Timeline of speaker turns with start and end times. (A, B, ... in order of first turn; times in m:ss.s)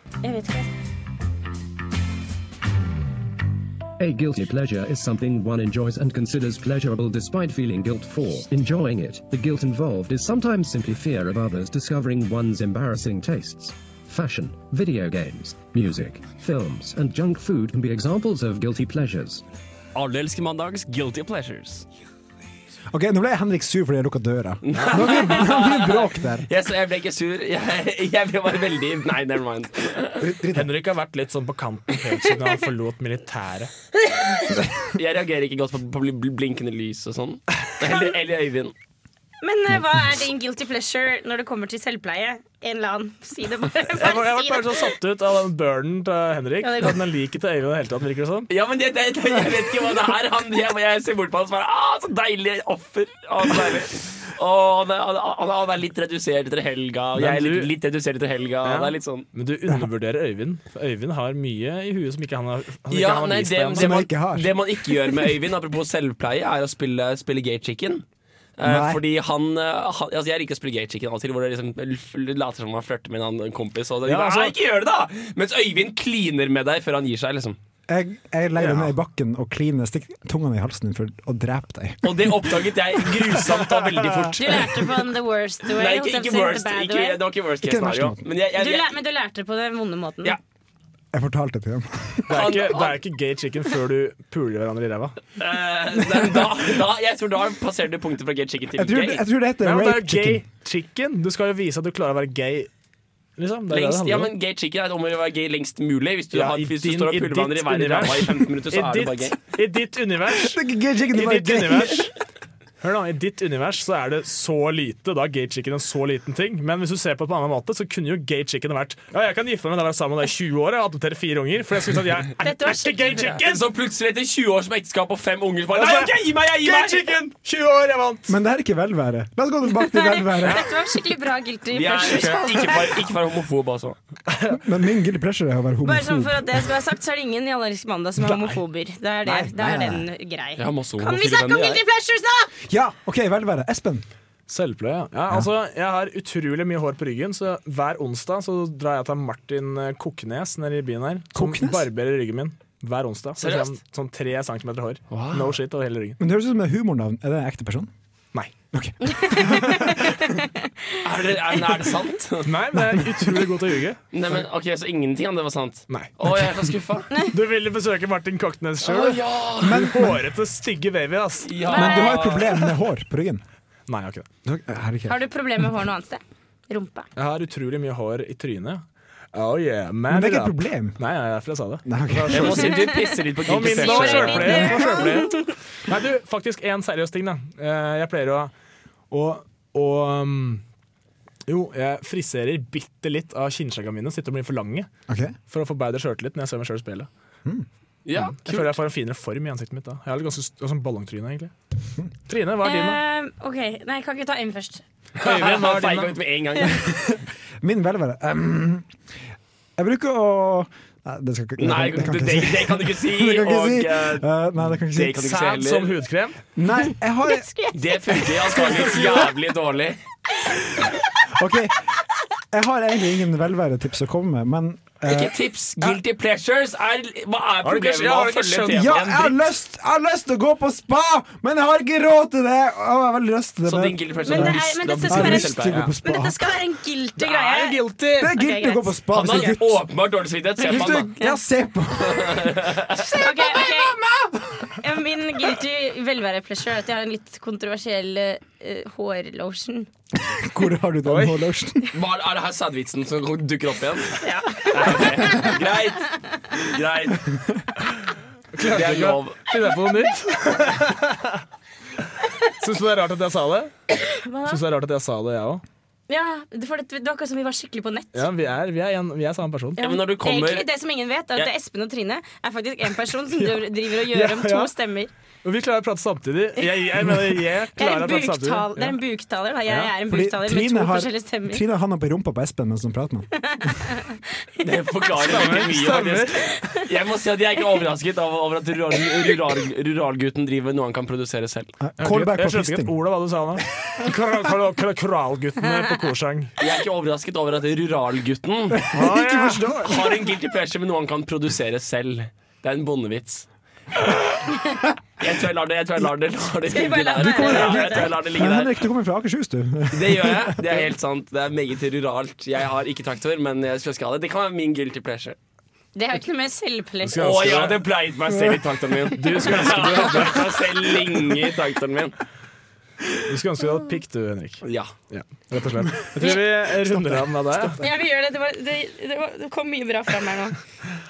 0:00.2-0:00.7 A
0:04.0-0:19.4 B
0:19.9-0:21.8 C
0:22.9-0:26.5 D
0:24.6-0:30.3 C
0:24.7-0:25.3 E
0:30.2-0:30.7 D
0:30.5-0:33.7 E
0:34.9-0:38.7 C
0:39.4-0:44.9 A
0:44.0-0:48.5 E
0:46.6-0:47.0 A
0:48.5-0:59.2 C
0:57.1-0:57.7 E
0:58.6-1:04.0 E
1:02.9-1:08.0 C
1:03.7-1:05.2 D
1:08.6-1:17.6 C
1:08.6-1:09.0 D
1:14.0-1:14.6 E
1:17.9-1:22.5 D
1:18.6-1:18.9 E
1:22.0-1:24.8 C
1:24.4-1:27.2 A
1:25.7-1:28.9 C
1:27.6-1:28.2 D
1:28.6-1:30.4 A
1:31.1-1:32.4 D
1:32.3-1:35.2 E
1:32.3-1:33.0 C
1:35.4-1:39.2 C
1:38.8-1:40.4 D
1:39.6-1:42.7 E
1:43.4-1:44.3 E
1:43.7-1:49.4 C
1:46.3-1:50.6 E
1:50.3-1:52.1 D
1:51.1-1:52.1 E
1:52.8-2:03.7 E
2:02.4-2:03.4 A
2:03.4-2:07.2 C
2:05.7-2:08.3 E
2:08.3-2:10.7 D
2:09.8-2:12.9 A
2:11.7-2:14.0 C
2:14.5-2:16.6 D
2:15.8-2:22.5 A
2:18.2-2:18.6 E
2:19.2-2:20.1 D
2:20.6-2:21.8 C
2:22.7-2:24.0 D
2:24.5-2:36.2 E
2:31.3-2:31.9 D
2:33.4-2:33.7 C
2:35.1-2:35.5 C
2:36.2-2:37.9 D
2:38.7-2:40.2 D
2:39.0-2:41.0 A
2:41.0-2:42.5 C
2:42.4-2:44.0 E
2:44.1-2:47.1 C
2:45.9-2:46.5 E
2:47.3-2:51.5 E
2:48.8-2:49.9 C
2:49.6-2:50.2 D
2:51.4-2:52.6 C
2:51.7-2:52.5 A
2:51.7-2:53.4 D
2:53.9-2:54.3 E
2:54.4-2:55.2 D
2:55.1-2:57.1 A
2:57.2-2:58.8 E
2:59.3-3:02.8 E
3:00.1-3:01.0 D
3:01.8-3:02.6 D
3:02.3-3:05.0 C
3:02.7-3:05.4 A
3:03.4-3:08.5 E
3:09.1-3:10.6 E
3:11.5-3:14.9 E
3:15.1-3:15.3 D
3:15.5-3:17.1 E
3:18.0-3:18.8 C
3:18.2-3:21.5 E
3:22.3-3:23.0 E
3:22.6-3:24.8 A
3:25.2-3:26.2 E
3:25.2-3:26.8 C
3:26.6-3:28.9 D
3:29.8-3:35.3 D
3:31.6-3:34.2 C
3:34.9-3:35.9 C
3:35.2-3:36.4 E
3:36.6-3:37.5 D
3:36.8-3:39.0 A
3:37.7-3:40.0 C
3:41.3-3:41.9 D
3:42.5-3:46.0 D
3:45.0-3:49.4 C
3:47.6-3:49.0 E
3:48.7-3:56.5 D
3:53.6-3:55.8 C
3:54.2-3:59.4 A
3:57.2-3:58.3 E
3:58.2-3:59.8 D
3:59.1-4:01.2 C
4:00.6-4:04.6 D
4:00.6-4:01.4 A
4:02.0-4:03.3 C
4:03.2-4:04.0 A
4:04.7-4:09.9 A
4:10.3-4:11.8 D
4:11.0-4:11.4 E
4:11.9-4:17.4 C
4:14.2-4:15.5 A
4:18.5-4:21.4 E
4:18.7-4:19.5 C
4:22.6-4:23.7 E
4:24.1-4:24.6 A
4:24.5-4:25.6 E
4:26.1-4:28.3 A
4:28.1-4:29.8 E
4:29.8-4:35.1 A
4:29.8-4:30.7 C
4:33.4-4:34.7 E
4:35.4-4:39.0 E
4:37.8-4:41.6 A
4:40.1-4:43.3 D
4:43.4-4:44.6 A
4:44.6-4:51.7 C
4:45.2-4:46.4 E
4:51.8-4:53.0 D
4:52.0-4:56.5 E
4:56.6-4:59.0 C
4:58.7-5:00.3 D
4:58.9-4:59.8 E
4:59.8-5:03.5 C
5:05.2-5:08.8 C
5:06.7-5:08.1 A
5:07.2-5:10.9 D
5:09.9-5:15.4 C
5:15.9-5:17.4 A
5:17.0-5:17.9 E
5:17.2-5:22.2 C
5:19.1-5:21.0 E
5:23.2-5:27.8 E
5:24.6-5:24.9 C
5:27.8-5:30.6 A